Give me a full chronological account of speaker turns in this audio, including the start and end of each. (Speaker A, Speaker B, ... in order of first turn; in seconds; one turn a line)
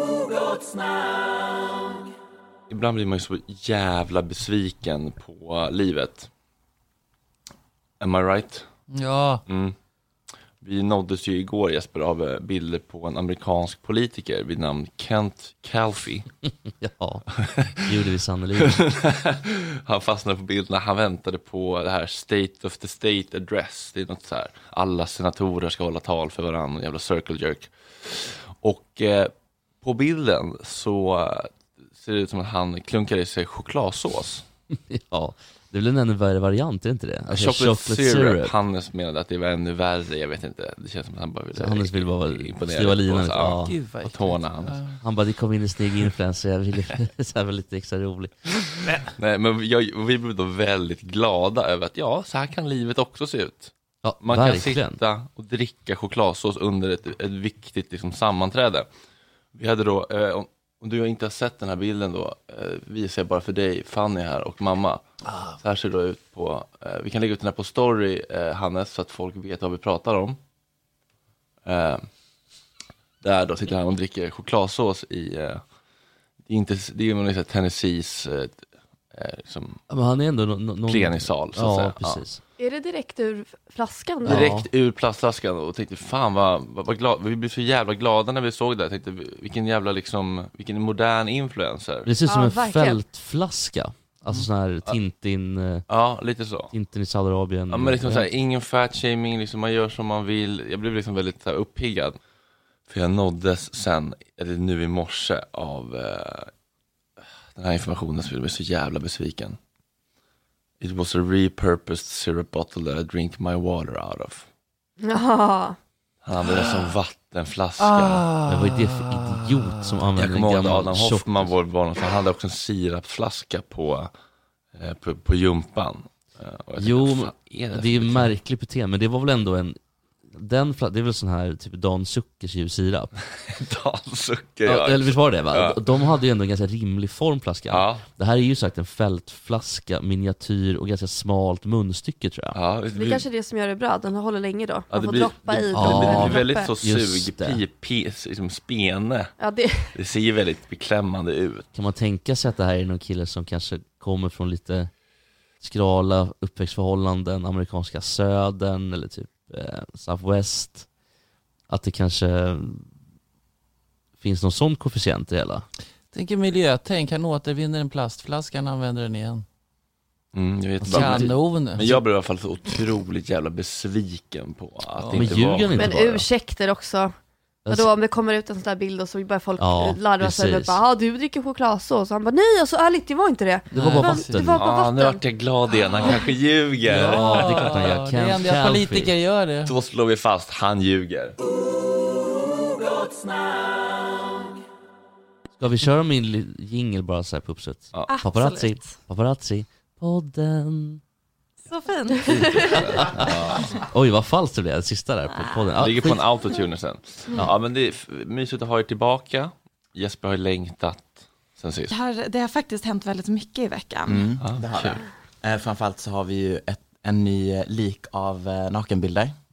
Speaker A: 2.7-6.3
Speaker A: 8.0-8.7
Speaker B: 8.9-9.4
Speaker A: 9.5-9.7
Speaker A: 10.6-16.2
Speaker C: 16.8-17.3
Speaker A: 17.4-17.8
Speaker C: 17.8-18.8
Speaker A: 18.6-34.4
Speaker C: 34.7-38.5
Speaker A: 37.3-44.8
Speaker C: 41.5-43.7
Speaker B: 43.6-45.0
Speaker C: 45.0-48.3
Speaker A: 49.1-58.9
Speaker C: 54.0-55.0
Speaker A: 59.5-65.0
Speaker A: 65.6-70.4
Speaker A: 71.6-72.0
Speaker A: 73.2-75.6
Speaker A: 76.5-79.8
Speaker C: 79.9-82.4
Speaker A: 80.9-82.2
Speaker D: 82.6-84.5
Speaker C: 84.2-84.7
Speaker A: 84.2-92.1
Speaker C: 92.0-95.8
Speaker D: 92.2-93.0
Speaker A: 94.3-94.9
Speaker A: 95.9-96.7
Speaker C: 96.7-98.3
Speaker A: 97.7-102.2
Speaker A: 102.9-106.5
Speaker A: 107.5-109.6
Speaker A: 110.8-114.5
Speaker D: 115.0-115.8
Speaker A: 116.2-118.3
Speaker B: 117.8-119.9
Speaker C: 118.5-121.5
Speaker A: 120.2-124.1
Speaker A: 124.7-128.3
Speaker C: 126.8-129.8
Speaker C: 130.3-133.1
Speaker A: 133.4-135.8
Speaker C: 134.7-142.6
Speaker A: 137.7-138.0
Speaker A: 142.5-143.2
Speaker D: 142.9-146.7
Speaker A: 144.9-149.3
Speaker C: 145.7-147.6
Speaker D: 149.4-149.9
Speaker A: 149.9-151.7
Speaker C: 151.7-154.9
Speaker C: 155.6-160.9
Speaker C: 161.7-162.9
Speaker C: 164.2-165.7
Speaker B: 166.1-169.4
Speaker A: 170.3-175.9
Speaker C: 170.8-171.4
Speaker B: 170.8-172.0
Speaker B: 175.0-175.5
Speaker C: 175.1-176.2
Speaker D: 175.7-177.1
Speaker C: 177.6-177.9
Speaker D: 177.7-185.2
Speaker C: 179.6-180.8
Speaker B: 183.7-184.5
Speaker C: 183.7-184.6
Speaker A: 184.5-188.0
Speaker B: 186.8-189.7
Speaker C: 186.9-189.1
Speaker A: 189.7-191.3
Speaker C: 195.6-201.0
Speaker E: 198.1-199.0
Speaker E: 201.6-202.8
Speaker A: 202.5-203.8
Speaker C: 203.8-206.2
Speaker E: 205.3-205.7
Speaker A: 205.8-211.9
Speaker E: 211.9-214.3
Speaker F: 214.1-219.3
Speaker A: 214.4-215.0